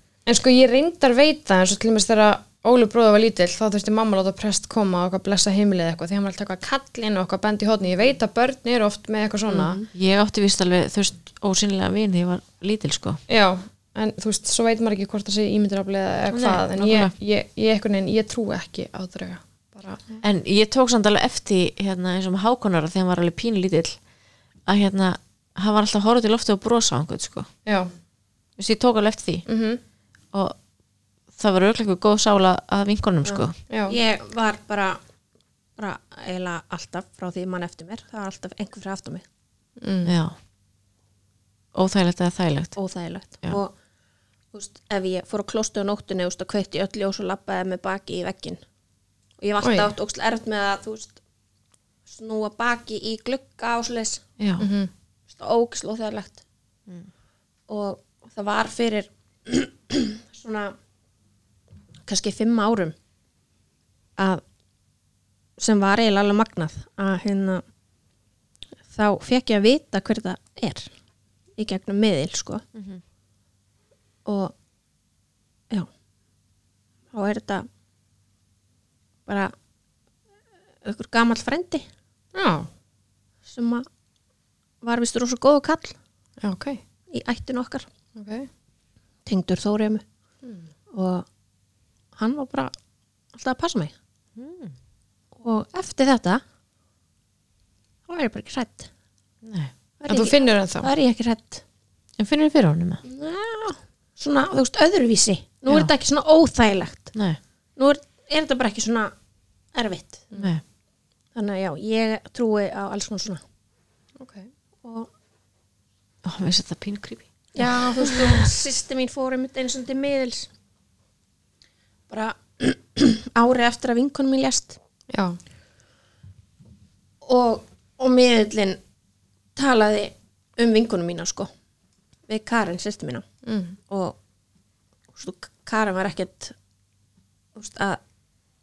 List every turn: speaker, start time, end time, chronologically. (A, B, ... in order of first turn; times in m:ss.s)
0:00.3-0:09.8 A
0:09.5-0:09.9 B
0:09.9-0:13.2 C
0:13.3-0:20.2 A
0:16.3-0:17.1 C
0:20.2-0:24.0 C
0:24.7-0:27.5 C
0:27.7-0:27.9 A
0:28.6-0:29.4 C
0:29.5-0:29.8 A
0:31.4-0:33.6 C
0:33.3-0:35.0 B
0:33.7-0:34.0 A
0:35.8-0:39.2 B
0:39.8-0:40.2 A
0:40.0-0:40.4 C
0:41.7-0:42.8 C
0:42.8-0:43.7 B
0:44.5-0:48.6 B
0:49.4-0:51.2 B
0:49.6-0:49.9 A
0:52.1-0:54.2 B
0:54.4-0:54.7 C
0:54.6-0:54.9 A
0:55.3-0:56.4 B
0:57.7-1:00.8 B
1:02.1-1:03.0 B
1:04.2-1:04.4 B
1:05.6-1:07.6 B
1:08.9-1:10.9 B
1:11.6-1:12.6 B
1:12.8-1:13.0 C
1:14.2-1:14.5 B
1:17.1-1:17.7 B
1:19.3-1:19.5 B
1:20.8-1:21.9 B
1:22.4-1:22.7 A
1:23.5-1:23.9 B
1:24.8-1:26.0 B
1:26.4-1:26.8 A
1:27.1-1:27.9 B
1:28.2-1:28.5 A
1:29.3-1:30.0 B
1:30.9-1:31.3 B
1:32.2-1:32.7 B
1:33.3-1:33.9 B
1:34.4-1:34.8 C
1:35.4-1:36.4 B
1:38.1-1:38.9 B
1:39.4-1:39.7 C
1:40.0-1:41.6 B
1:40.1-1:40.9 A
1:42.2-1:43.0 C
1:43.0-1:47.1 B
1:47.1-1:47.4 C
1:47.8-1:49.1 B
1:49.8-1:50.3 B
1:50.4-1:50.6 C
1:51.4-1:53.4 B
1:54.2-1:54.5 A
1:54.8-1:55.1 B
1:56.2-1:57.6 C
1:57.5-2:00.5 B
2:02.1-2:04.8 B
2:05.1-2:05.4 A
2:07.2-2:08.8 B
2:09.6-2:11.5 B
2:12.3-2:13.2 B
2:13.5-2:13.8 A
2:13.9-2:14.2 B
2:15.1-2:16.6 B
2:17.6-2:18.0 B